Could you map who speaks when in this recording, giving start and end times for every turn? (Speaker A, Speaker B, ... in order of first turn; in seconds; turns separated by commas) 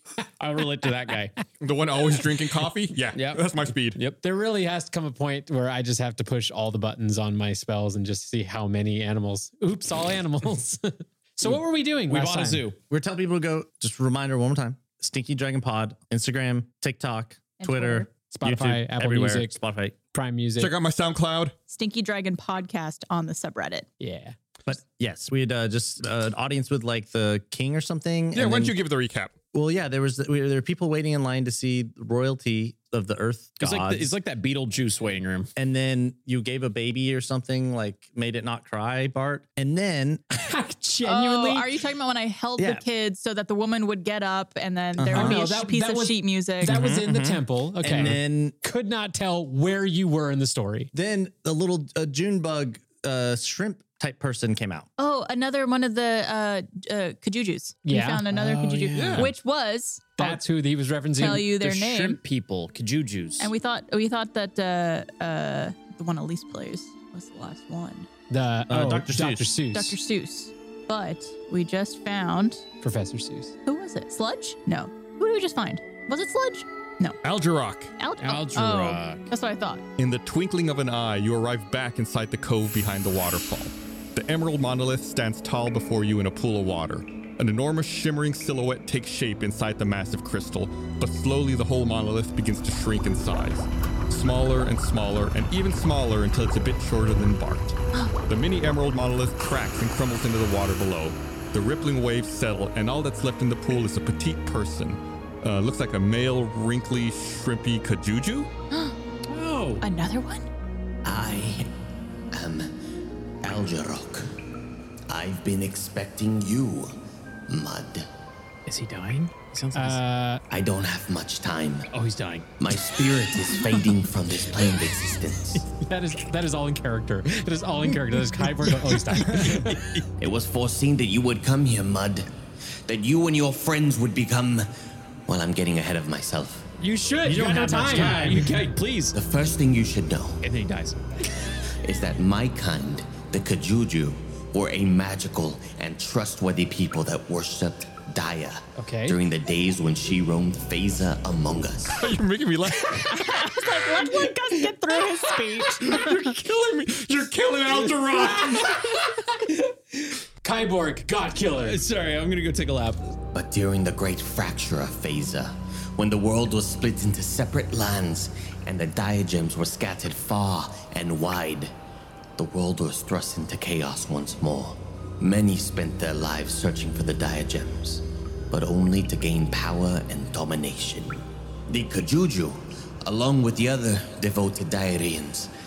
Speaker A: 0.4-1.4, Speaker B: 1.6-4.0, Speaker A: 3.1-4.2, Speaker C: 4.2-12.7, Speaker A: 11.4-12.8, Speaker D: 12.9-20.0, Speaker E: 17.6-18.1, Speaker C: 18.3-19.6, Speaker C: 20.1-20.7, Speaker B: 20.6-21.6, Speaker E: 21.7-23.9, Speaker C: 24.0-24.4, Speaker D: 24.6-28.8, Speaker B: 28.3-29.4, Speaker D: 29.5-34.2, Speaker A: 33.6-35.5, Speaker D: 35.6-40.2, Speaker C: 40.3-41.7, Speaker E: 41.0-46.9, Speaker D: 42.6-42.8, Speaker D: 45.0-45.4, Speaker C: 45.0-50.9, Speaker D: 46.6-48.5, Speaker D: 50.9-54.9, Speaker E: 55.0-60.2, Speaker C: 57.9-59.0, Speaker A: 58.8-59.3, Speaker B: 59.0-59.3, Speaker C: 60.2-61.5, Speaker E: 61.2-62.2, Speaker A: 61.5-63.5, Speaker E: 63.4-68.1, Speaker C: 68.3-70.0, Speaker D: 68.7-69.6, Speaker E: 69.7-72.6, Speaker C: 72.8-73.5, Speaker E: 73.7-77.2, Speaker B: 77.2-77.9, Speaker E: 78.0-79.8, Speaker A: 78.2-79.3, Speaker B: 80.0-108.5, Speaker E: 108.7-109.0, Speaker A: 109.3-109.8, Speaker E: 109.8-110.5, Speaker F: 111.0-111.7, Speaker F: 112.3-112.7, Speaker F: 113.4-114.3, Speaker F: 115.1-116.9, Speaker F: 117.5-118.1, Speaker A: 118.7-120.0, Speaker C: 119.8-120.4, Speaker F: 120.5-121.9, Speaker A: 121.9-122.5, Speaker F: 122.6-125.7, Speaker C: 125.8-129.8, Speaker A: 129.1-129.6, Speaker B: 129.2-130.1, Speaker F: 130.2-132.3, Speaker F: 132.9-134.7, Speaker F: 135.3-136.7, Speaker C: 136.8-138.5, Speaker A: 137.2-139.2, Speaker F: 139.1-140.4, Speaker A: 140.4-141.3, Speaker F: 141.8-152.0, Speaker C: 148.8-149.2, Speaker B: 152.0-153.4, Speaker E: 153.0-156.3, Speaker A: 154.0-154.7, Speaker B: 155.8-158.7, Speaker A: 157.7-158.3, Speaker C: 158.2-161.8, Speaker A: 161.6-163.1, Speaker F: 163.3-171.7, Speaker F: 172.4-185.5